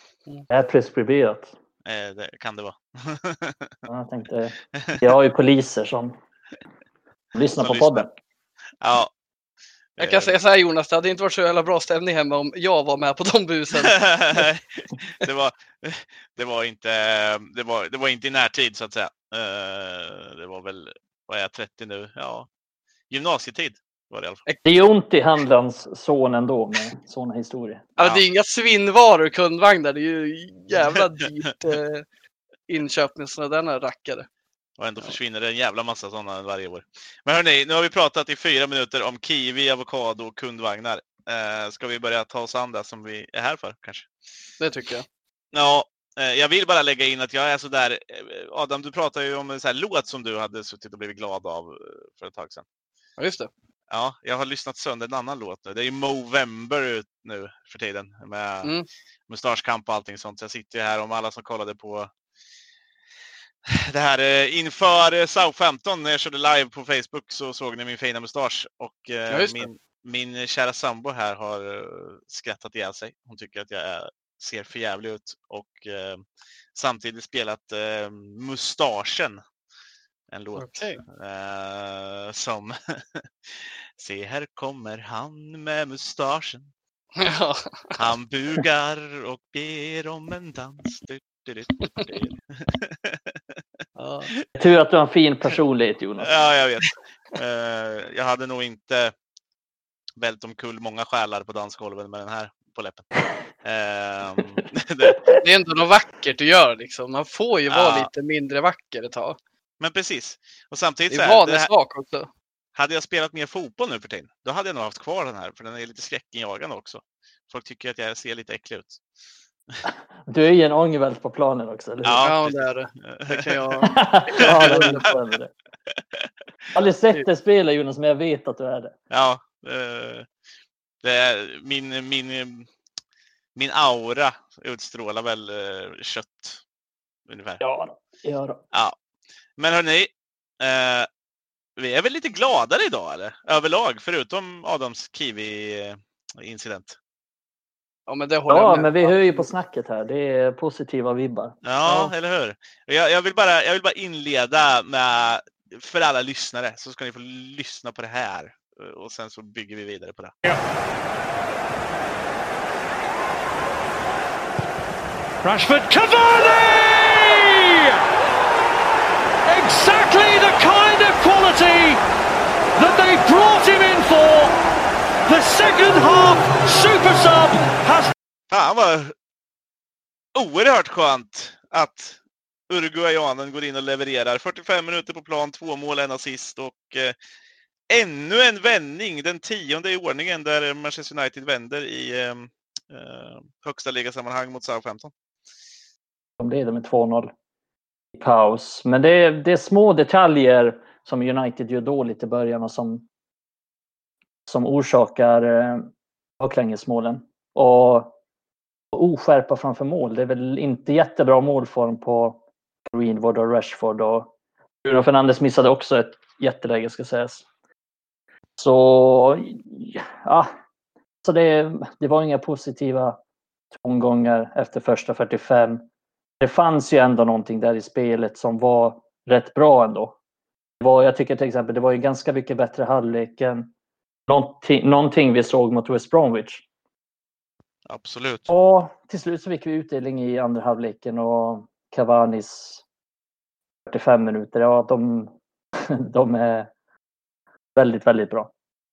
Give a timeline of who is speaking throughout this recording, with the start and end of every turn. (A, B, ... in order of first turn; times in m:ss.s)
0:00.5-0:01.5 A
0:01.8-0:03.8 B
0:03.9-0:06.1 A
0:04.8-0:05.0 B
0:07.3-0:08.1 A
0:07.6-0:08.1 B
0:08.8-0:09.1 B
0:10.0-0:10.3 B
0:10.0-0:14.0 C
0:13.7-0:22.5 B
0:23.1-0:24.4 B
0:24.6-0:27.8 A
0:28.0-0:32.0 C
0:28.0-0:28.2 B
0:32.7-0:34.3 C
0:34.8-0:44.1 B
0:44.6-0:45.0 C
0:45.5-0:52.6 B
0:53.2-0:53.5 C
0:53.9-0:58.7 B
0:59.3-1:02.1 B
1:03.7-1:19.4 B
1:09.3-1:09.7 C
1:20.3-1:26.7 B
1:20.6-1:21.0 C
1:27.2-1:28.0 C
1:28.0-1:33.3 B
1:34.0-1:34.3 C
1:34.6-1:36.3 A
1:36.2-1:39.1 B
1:40.2-1:45.3 B
1:45.4-1:49.4 C
1:47.7-1:48.1 B
1:49.8-1:51.7 B
1:51.1-1:52.3 C
1:52.7-1:59.0 B
2:00.3-2:02.2 A
2:02.0-2:03.7 B
2:02.2-2:05.1 C
2:03.8-2:05.5 A
2:04.4-2:05.0 B
2:06.7-2:08.9 A
2:09.1-2:10.3 B
2:11.0-2:12.7 B
2:13.6-2:16.6 B
2:17.3-2:17.6 B
2:17.6-2:18.6 A
2:19.6-2:21.1 B
2:21.8-2:27.0 B
2:28.1-2:29.5 C
2:28.5-2:31.6 A
2:31.6-2:40.3 B
2:45.4-2:48.0 D
2:49.5-2:52.0 D
2:52.8-2:54.5 D
2:55.2-2:58.1 D
2:58.5-2:59.1 B
3:00.3-3:02.2 B
3:02.7-3:07.1 B
3:07.9-3:15.1 B
3:16.4-3:17.3 A
3:18.1-3:23.0 A
3:24.5-3:25.9 A
3:26.4-3:28.1 A
3:28.9-3:34.3 A
3:34.8-3:37.4 A
3:38.6-3:40.5 A
3:41.2-3:43.2 A
3:43.7-3:45.8 A
3:46.4-3:50.2 A
3:50.8-3:53.7 A
3:54.3-3:56.6 A
3:57.9-3:58.5 B
3:58.5-4:02.8 A
4:03.8-4:06.7 A
4:07.8-4:08.5 A